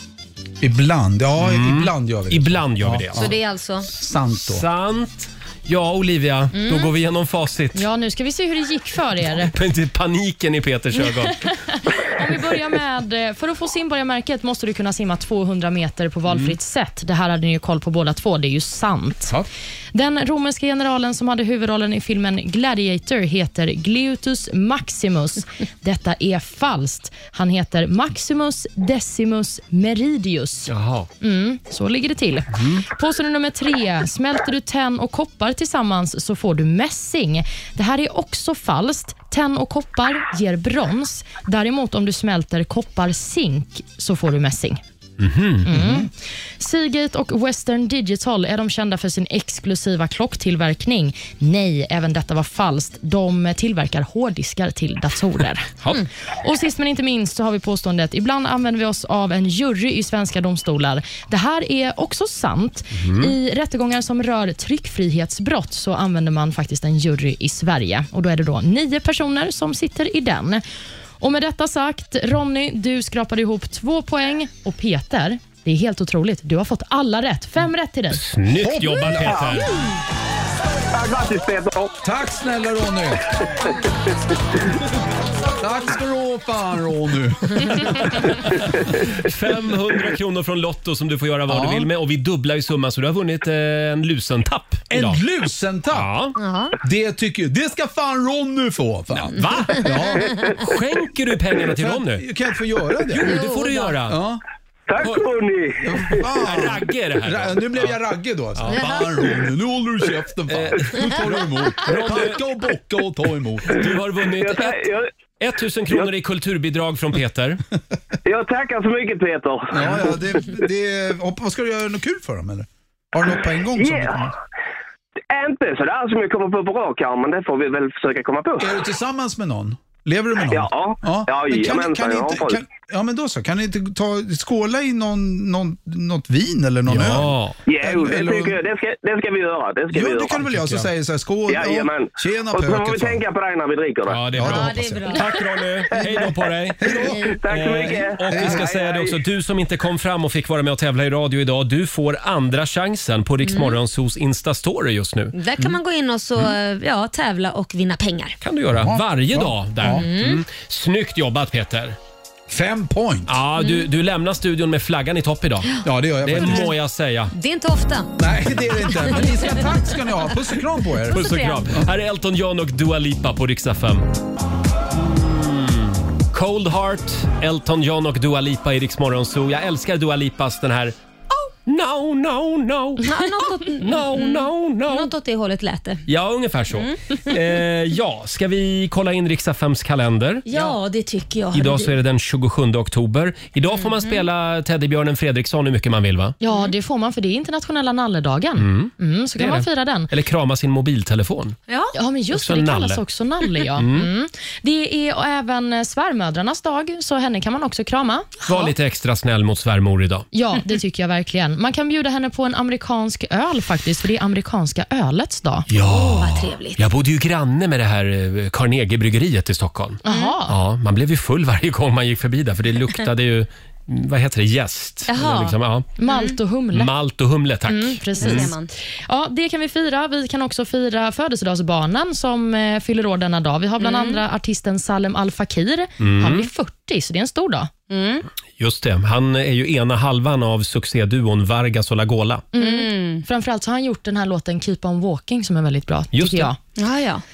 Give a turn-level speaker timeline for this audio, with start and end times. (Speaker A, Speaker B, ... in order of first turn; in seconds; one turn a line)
Speaker A: 0.6-4.6
Speaker B: 1.4-3.3
Speaker C: 3.1-3.9
Speaker B: 4.3-7.9
Speaker C: 6.5-6.9
Speaker D: 7.8-9.5
Speaker B: 9.4-11.5
Speaker D: 11.0-19.3
Speaker B: 16.3-16.6
Speaker D: 19.9-44.8
Speaker B: 30.7-31.1
Speaker B: 32.5-32.8
Speaker B: 45.2-45.7
Speaker D: 45.6-55.7
Speaker A: 45.7-46.1
Speaker D: 56.3-70.6
Speaker B: 62.9-63.3
Speaker D: 71.2-78.2
Speaker B: 78.1-79.8
Speaker A: 78.5-79.7
Speaker E: 79.3-79.6
Speaker E: 80.9-81.9
Speaker A: 82.0-83.5
Speaker A: 85.6-88.4
Speaker B: 87.8-88.5
Speaker B: 89.0-95.2
Speaker A: 91.5-91.9
Speaker A: 94.9-96.1
Speaker B: 95.9-96.3
Speaker C: 96.3-96.7
Speaker A: 96.8-100.5
Speaker B: 99.3-102.2
Speaker A: 101.7-103.3
Speaker B: 103.1-104.2
Speaker C: 103.2-103.9
Speaker A: 104.1-104.4
Speaker E: 104.9-106.2
Speaker B: 105.0-105.2
Speaker A: 105.8-113.8
Speaker B: 106.4-108.0
Speaker B: 108.5-109.0
Speaker C: 108.7-109.0
Speaker B: 110.5-112.4
Speaker B: 113.7-114.8
Speaker E: 114.4-115.1
Speaker B: 115.4-117.6
Speaker E: 118.2-120.5
Speaker A: 119.7-124.3
Speaker E: 123.8-124.3
Speaker E: 125.3-128.8
Speaker A: 128.6-138.6
Speaker E: 130.5-132.6
Speaker B: 136.9-137.6
Speaker E: 137.7-140.4
Speaker A: 139.9-143.2
Speaker B: 140.5-140.9
Speaker E: 141.5-144.2
Speaker B: 144.1-155.3
Speaker A: 144.3-145.2
Speaker C: 144.4-145.3
Speaker E: 145.9-146.3
Speaker A: 146.8-147.2
Speaker E: 146.9-149.2
Speaker C: 147.1-147.3
Speaker A: 148.3-148.7
Speaker C: 153.4-153.8
Speaker C: 155.3-158.4
Speaker B: 158.4-162.0
Speaker A: 158.7-160.0
Speaker C: 159.8-160.4
Speaker A: 162.5-163.3
Speaker B: 163.3-165.7
Speaker C: 163.6-163.8
Speaker A: 165.8-166.7
Speaker B: 166.2-167.3
Speaker C: 167.3-168.1
Speaker A: 168.2-171.8
Speaker C: 168.9-169.2
Speaker B: 171.1-174.0
Speaker C: 171.1-171.6
Speaker B: 174.9-180.9
Speaker B: 181.7-183.1
Speaker C: 183.0-186.0
Speaker B: 183.8-185.1
Speaker B: 186.1-190.7
Speaker C: 186.7-187.3
Speaker C: 190.4-191.9
Speaker B: 191.5-196.3
Speaker C: 193.8-194.2
Speaker D: 196.4-200.1
Speaker C: 196.5-196.7
Speaker B: 198.6-201.6
Speaker C: 201.7-201.9
Speaker D: 201.9-208.7
Speaker B: 202.3-203.0
Speaker B: 203.8-204.1
Speaker B: 208.5-210.3
Speaker D: 210.3-215.7
Speaker B: 215.7-225.9
Speaker C: 215.8-216.8
Speaker D: 220.0-220.6
Speaker C: 220.1-220.3
Speaker C: 225.1-225.6
Speaker D: 226.0-226.9
Speaker C: 226.1-226.3
Speaker B: 226.7-228.5
Speaker D: 227.7-237.7
Speaker C: 228.2-228.7
Speaker C: 233.8-234.2
Speaker B: 236.0-236.5
Speaker C: 237.9-238.2
Speaker B: 238.6-242.4
Speaker D: 242.5-246.6
Speaker C: 242.6-243.2
Speaker B: 246.1-246.5
Speaker C: 246.8-247.2